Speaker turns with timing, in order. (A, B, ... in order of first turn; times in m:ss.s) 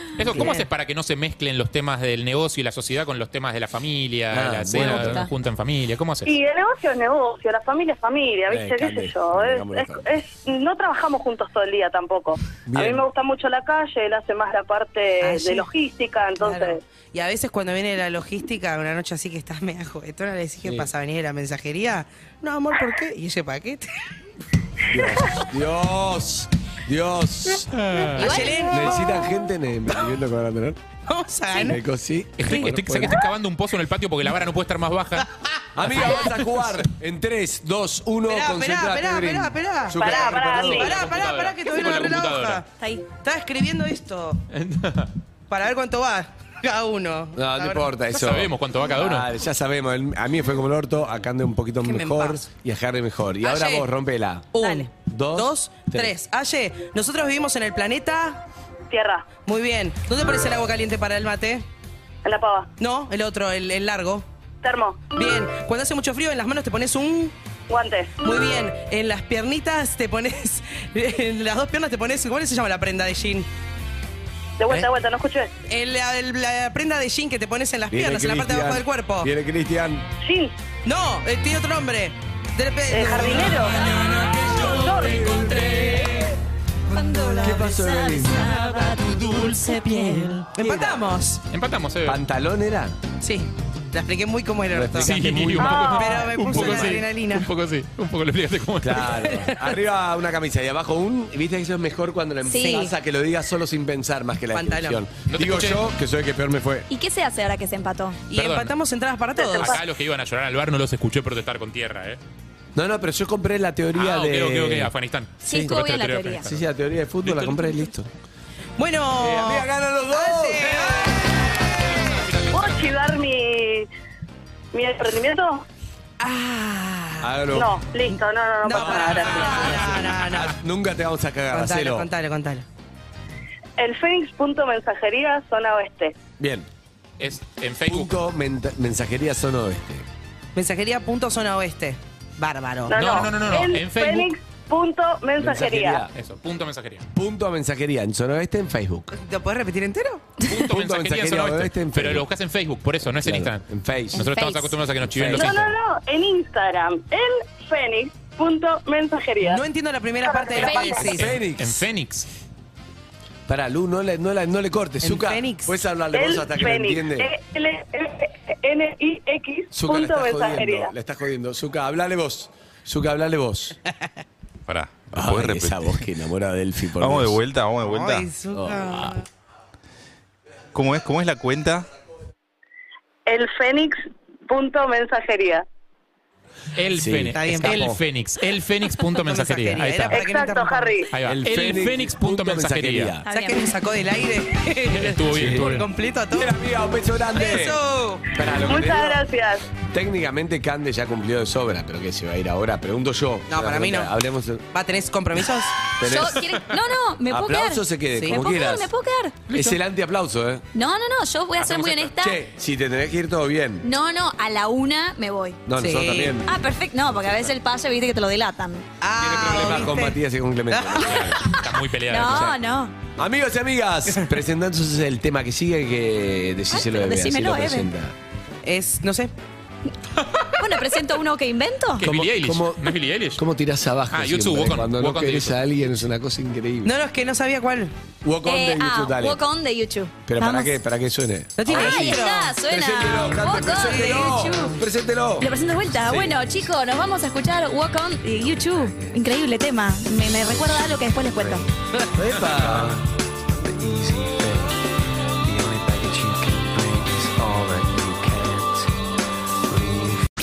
0:00.2-0:06.3 A
0:00.3-0:00.7 B
0:04.3-0:05.3 C
0:05.0-0:05.3 D
0:06.2-0:16.8 E
0:08.5-0:10.1 C
0:12.6-0:13.0 C
0:15.2-0:15.7 B
0:16.4-0:23.9 B
0:24.9-0:27.9 C
0:27.7-0:28.4 A
0:28.2-0:29.2 D
0:28.2-0:29.3 B
0:28.5-0:30.8 C
0:31.1-0:31.8 B
0:31.6-0:33.2 C
0:32.4-0:35.3 A
0:35.7-0:40.9 C
0:35.9-0:36.4 D
0:38.3-0:44.4 B
0:40.0-0:41.0 E
0:40.6-0:42.6 A
0:42.6-0:43.0 D
0:44.5-0:45.1 A
0:45.5-0:47.8 B
0:47.3-0:56.1 C
0:48.1-0:49.3 A
0:51.8-0:52.5 B
0:53.4-0:53.9 B
0:54.5-0:58.4 B
0:58.9-0:59.3 E
0:59.4-1:01.6 B
1:02.2-1:02.7 E
1:02.8-1:04.2 B
1:04.6-1:05.0 E
1:05.1-1:07.3 B
1:07.7-1:08.2 E
1:08.2-1:13.5 B
1:14.6-1:15.5 E
1:15.7-1:19.3 B
1:17.9-1:20.1 C
1:20.2-1:20.5 E
1:20.8-1:24.4 B
1:22.9-1:25.9 E
1:24.6-1:26.0 C
1:26.9-1:30.5 D
1:27.2-1:29.4 C
1:30.5-1:31.4 B
1:30.6-1:31.0 C
1:31.5-1:32.2 A
1:32.0-1:33.0 C
1:33.2-1:37.5 B
1:34.7-1:35.9 C
1:35.0-1:39.3 A
1:35.6-1:35.9 E
1:38.8-1:46.9 C
1:39.2-1:39.6 B
1:42.4-1:42.9 D
1:44.5-1:45.0 B
1:45.3-1:45.8 A
1:46.9-1:48.2 D
1:48.3-1:49.8 B
1:48.3-1:48.7 A
1:49.4-1:49.8 E
1:49.6-1:52.2 A
1:52.7-1:54.9 C
1:54.0-1:56.6 A
1:55.4-1:56.5 D
1:55.4-1:55.8 C
1:56.4-1:58.1 C
1:57.2-1:57.7 A
1:58.8-2:01.2 B
1:59.2-2:01.2 C
2:01.9-2:02.9 A
2:02.5-2:03.9 E
2:04.7-2:05.6 E
2:06.2-2:07.3 B
2:07.2-2:07.8 C
2:07.5-2:09.9 E
2:08.6-2:10.6 B
2:08.7-2:12.1 C
2:11.5-2:12.6 B
2:13.8-2:16.1 E
2:16.4-2:16.7 C
2:17.2-2:18.2 A
2:17.8-2:20.1 C
2:20.5-2:23.0 B
2:22.9-2:26.0 E
2:22.9-2:24.3 A
2:25.4-2:26.1 C
2:26.1-2:27.0 A
2:27.1-2:29.1 C
2:29.1-2:30.2 B
2:30.5-2:35.7 A
2:30.6-2:32.2 C
2:33.2-2:34.3 C
2:34.1-2:34.8 D
2:35.0-2:35.7 C
2:35.3-2:39.6 E
2:39.4-2:41.3 B
2:40.3-2:40.8 E
2:40.5-2:41.0 D
2:40.9-2:41.8 C
2:41.0-2:42.3 A
2:43.5-2:47.3 C
2:45.0-2:45.7 B
2:46.1-2:50.9 E
2:49.7-2:53.8 C
2:54.7-2:55.9 F
2:55.1-2:57.4 C
2:57.0-2:58.3 F
2:57.8-2:59.2 B
2:58.5-2:59.2 C
3:00.7-3:01.9 F
3:03.2-3:05.6 E
3:06.8-3:10.2 A
3:06.9-3:08.0 C
3:07.3-3:08.0 B
3:09.1-3:11.1 B
3:10.1-3:11.1 E
3:11.1-3:13.2 A
3:11.2-3:13.2 C
3:13.2-3:13.7 D
3:13.3-3:16.6 B
3:14.9-3:15.9 A
3:15.3-3:19.2 C
3:17.3-3:18.2 B
3:18.6-3:19.7 E
3:19.8-3:24.6 C
3:23.5-3:24.1 B
3:24.7-3:25.8 B
3:26.0-3:26.6 C
3:26.0-3:29.5 D
3:27.2-3:28.9 C
3:28.1-3:28.4 B
3:29.5-3:30.6 C
3:30.7-3:32.4 D
3:31.6-3:32.1 A
3:32.2-3:33.9 C
3:33.8-3:35.6 D
3:35.7-3:36.5 C
3:35.8-3:36.3 B
3:36.4-3:38.9 D
3:39.0-3:41.2 B
3:39.2-3:41.5 C
3:41.0-3:42.6 A
3:41.2-3:43.0 D
3:42.3-3:42.6 C
3:43.2-3:48.1 C
3:46.7-3:47.9 D
3:48.6-3:49.3 B
3:50.2-3:51.0 A
3:50.6-3:52.1 D
3:52.0-3:53.4 A
3:52.0-3:56.9 C
3:54.1-3:55.6 A
3:56.8-3:57.9 B
3:58.2-3:59.4 C
3:58.4-4:00.7 D
4:00.2-4:06.4 C
4:01.6-4:02.5 B
4:01.6-4:04.8 D
4:03.8-4:04.8 B
4:05.4-4:11.6 D
4:08.3-4:09.2 C
4:11.4-4:14.7 C
4:15.4-4:18.9 C
4:19.7-4:20.2 C